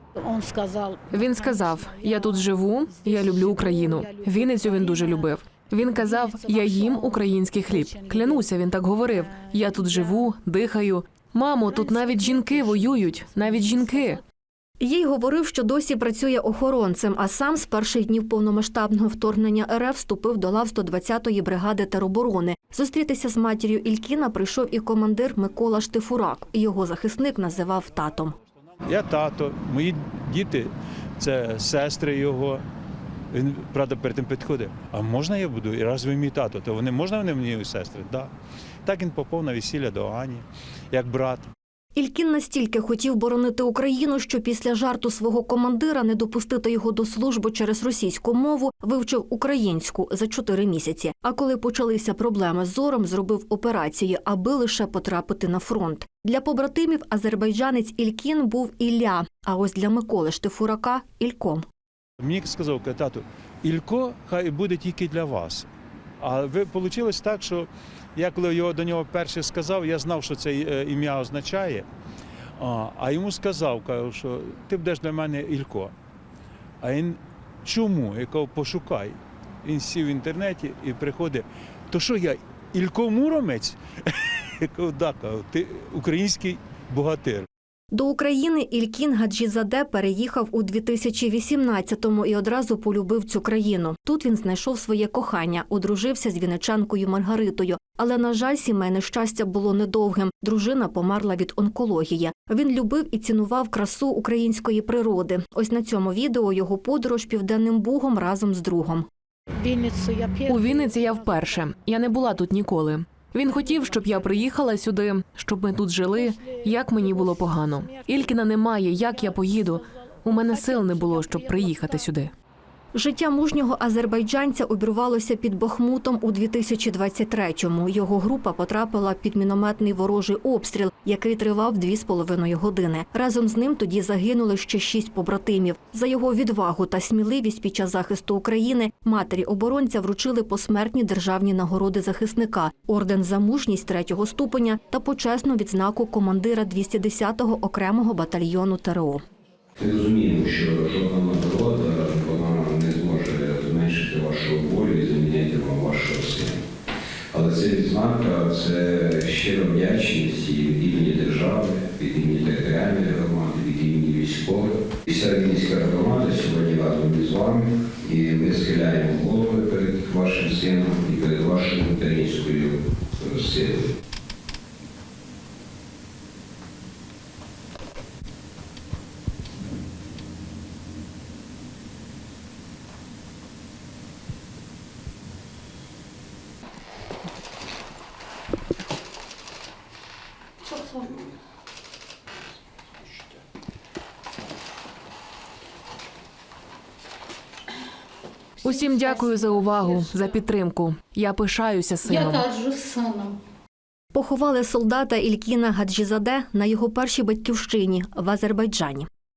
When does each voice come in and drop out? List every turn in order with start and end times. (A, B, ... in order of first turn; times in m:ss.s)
0:00.2-0:08.5 A
0:01.1-0:14.2 B
0:09.0-0:10.3 A
0:11.6-0:14.2 A
0:14.8-0:28.3 C
0:28.9-0:32.6 D
0:33.3-0:38.3 D
0:38.8-0:41.5 D
0:42.0-1:01.6 C
1:02.2-1:05.6 D
1:06.2-1:11.8 D
1:12.6-1:15.9 D
1:16.8-1:27.5 D
1:27.9-1:49.1 C
1:49.6-1:51.7 A
1:50.5-2:02.3 B
1:53.4-1:54.5 A
1:56.1-1:58.4 A
1:59.0-2:02.1 A
2:02.9-2:29.2 C
2:29.8-2:36.6 E
2:37.3-2:53.9 E
3:10.6-3:11.2 A
3:18.6-3:22.5 B
3:18.6-3:20.2 A
3:22.0-3:23.4 A
3:24.1-3:29.1 C